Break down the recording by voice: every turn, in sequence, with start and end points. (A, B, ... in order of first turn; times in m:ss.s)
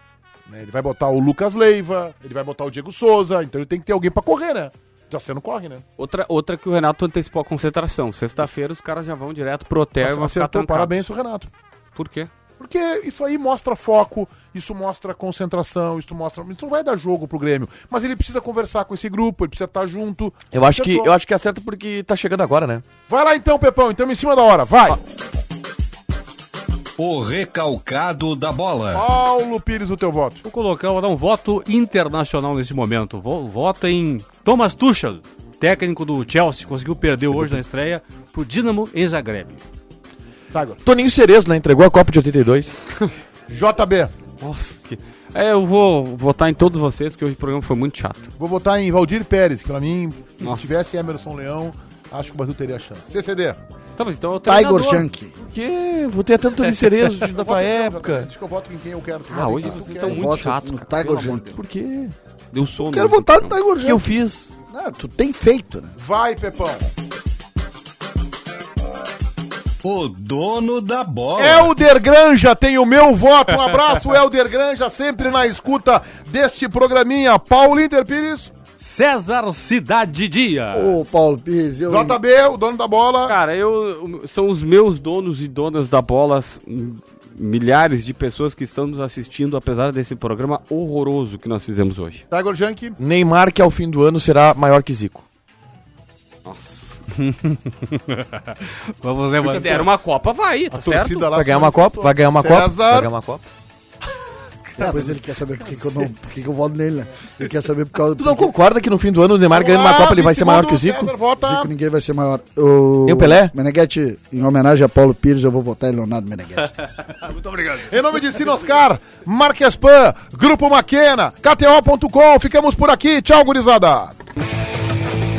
0:00.5-0:05.8 A
0:06.0-0:11.0 B
0:10.0-0:11.5 A
0:12.0-0:12.3 B
0:12.6-0:21.1 A
0:20.5-0:22.9 C
0:23.1-0:25.0 A
0:27.0-0:29.1 D
0:28.9-0:30.4 A
0:30.4-0:39.6 E
0:37.3-0:37.6 C
0:40.5-0:40.8 A
0:40.8-0:42.8 C
0:43.5-0:44.1 A
0:44.4-0:48.3 B
0:48.4-0:53.6 A
0:50.4-0:50.8 B
0:54.0-0:55.1 B
0:54.4-0:55.4 F
0:55.4-0:58.3 C
0:57.2-1:00.4 A
0:59.3-1:01.6 B
0:59.6-1:01.6 F
1:01.5-1:02.2 C
1:02.5-1:03.6 B
1:02.9-1:04.1 F
1:03.8-1:04.5 C
1:04.7-1:06.0 F
1:06.0-1:06.9 A
1:09.8-1:11.8 D
1:11.4-1:18.5 A
1:18.8-1:21.1 E
1:20.7-1:22.2 F
1:21.9-1:23.4 A
1:23.3-1:32.2 B
1:32.3-1:33.0 A
1:33.0-1:35.2 C
1:36.4-1:37.0 B
1:37.2-1:39.9 E
1:39.4-1:41.3 B
1:40.7-1:43.1 A
1:41.3-1:43.4 C
1:44.8-1:45.2 A
1:44.8-1:48.6 F
1:48.2-1:51.1 C
1:49.5-1:51.7 A
1:51.4-1:56.8 F
1:53.1-1:53.5 C
1:57.2-1:57.9 E
1:57.8-2:04.2 A